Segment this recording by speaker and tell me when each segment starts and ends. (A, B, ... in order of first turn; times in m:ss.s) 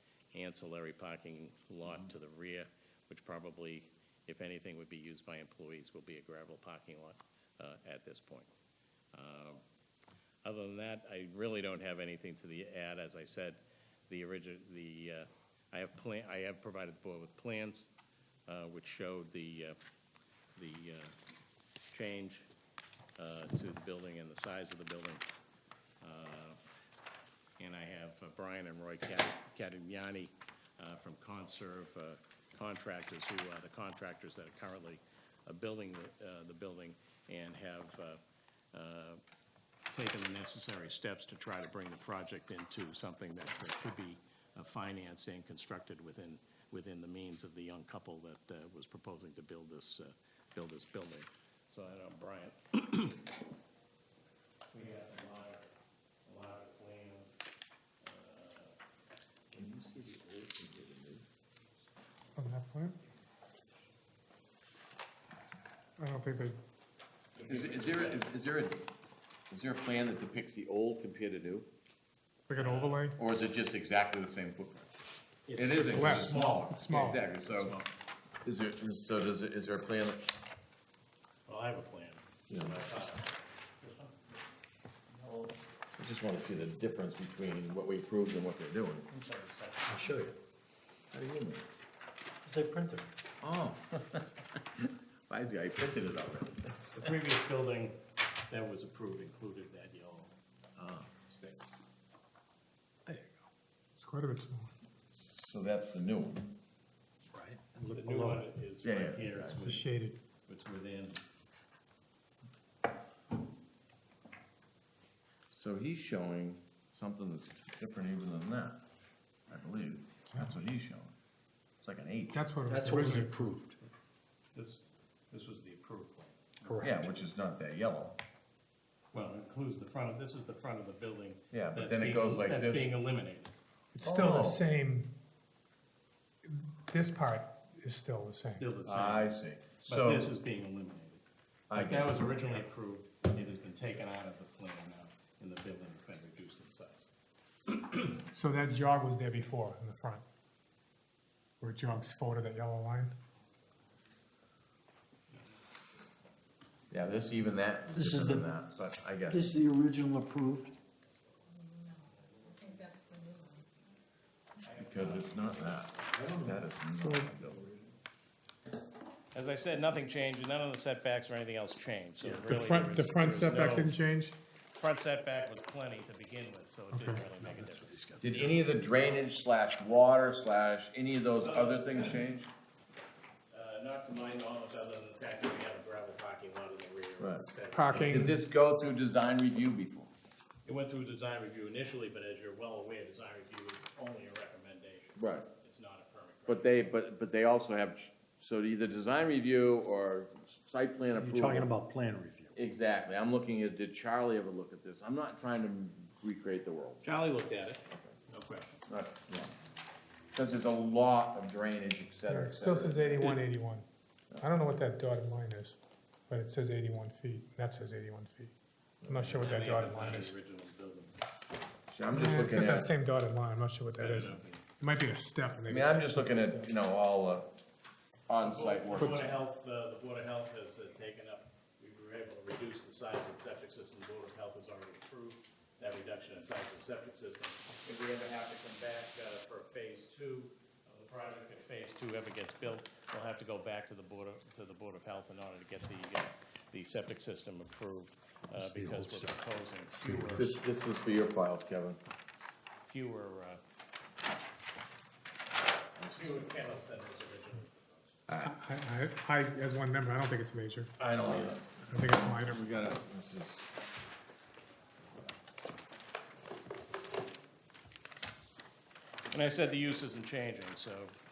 0:00.3-0:08.5 A
0:09.1-0:09.6 A
0:10.4-0:17.9 A
0:18.5-0:19.8 A
0:20.6-0:21.1 A
0:21.9-0:22.5 A
0:23.2-0:25.2 A
0:26.0-0:26.6 A
0:27.6-0:38.2 A
0:38.7-0:39.2 A
0:39.9-0:53.3 A
0:54.7-0:55.7 A
0:56.2-0:57.3 A
0:58.0-0:58.8 A
0:59.5-1:01.2 B
1:02.4-1:03.0 C
1:06.0-1:06.6 C
1:07.3-1:08.2 A
1:07.4-1:08.9 B
1:09.5-1:11.7 B
1:12.5-1:13.2 C
1:12.5-1:13.0 A
1:13.2-1:15.0 B
1:15.5-1:17.9 A
1:15.5-1:17.8 B
1:15.9-1:17.3 C
1:18.4-1:20.3 B
1:21.5-1:24.2 A
1:22.5-1:22.8 B
1:25.2-1:25.5 A
1:26.0-1:29.1 B
1:29.1-1:30.1 A
1:29.8-1:30.3 D
1:31.1-1:31.7 B
1:32.4-1:33.1 D
1:33.4-1:37.1 B
1:36.9-1:40.3 A
1:40.8-1:41.1 B
1:41.2-1:41.7 A
1:44.0-1:44.7 C
1:45.1-1:46.5 B
1:47.3-1:48.5 D
1:47.9-1:49.9 A
1:48.8-1:49.6 B
1:49.6-1:50.2 C
1:50.4-1:51.2 A
1:55.5-1:58.8 B
1:59.5-2:01.1 B
2:01.8-2:02.4 B
2:02.3-2:03.4 C
2:02.7-2:03.8 D
2:04.5-2:06.9 A
2:06.6-2:06.9 D
2:06.8-2:08.2 B
2:09.1-2:13.5 A
2:11.5-2:12.9 B
2:13.9-2:15.1 C
2:14.0-2:14.6 B
2:16.4-2:18.6 C
2:18.5-2:19.3 A
2:18.8-2:20.3 B
2:19.8-2:21.2 A
2:21.7-2:22.4 B
2:21.7-2:27.1 A
2:27.7-2:28.2 A
2:28.3-2:30.2 C
2:31.6-2:33.1 C
2:36.9-2:39.5 B
2:37.9-2:38.5 D
2:39.3-2:40.7 D
2:42.3-2:43.0 A
2:44.6-2:46.0 A
2:44.8-2:47.6 B
2:46.1-2:47.8 D
2:47.0-2:47.3 C
2:49.3-2:53.9 A
2:52.2-2:52.4 D
2:52.5-2:54.4 C
2:54.8-2:58.2 A
2:56.9-2:57.2 C
2:57.4-2:58.6 D
2:58.2-3:02.5 B
3:01.4-3:02.2 A
3:03.5-3:08.3 A
3:07.2-3:10.1 B
3:07.7-3:08.3 C
3:10.6-3:16.9 A
3:15.2-3:15.4 B
3:16.5-3:21.7 B
3:21.1-3:22.5 D
3:22.5-3:27.0 B
3:27.0-3:28.8 A
3:28.9-3:29.5 B
3:30.3-3:33.4 B
3:32.3-3:33.8 C
3:34.4-3:35.8 C
3:36.3-3:38.5 C
3:39.0-3:39.4 B
3:39.1-3:40.3 C
3:39.4-3:41.2 A
3:41.9-3:42.9 B
3:42.1-3:46.7 C
3:43.9-3:44.6 A
3:45.7-3:47.5 B
3:48.3-3:49.4 B
3:48.4-4:10.5 A
4:08.5-4:09.4 D
4:10.0-4:10.4 D
4:10.3-4:12.0 B
4:12.8-4:13.6 A
4:16.1-4:18.2 A
4:18.3-4:18.5 B
4:18.4-4:20.9 C
4:21.0-4:23.7 B
4:21.1-4:21.5 A
4:21.9-4:22.6 C
4:29.3-4:31.2 A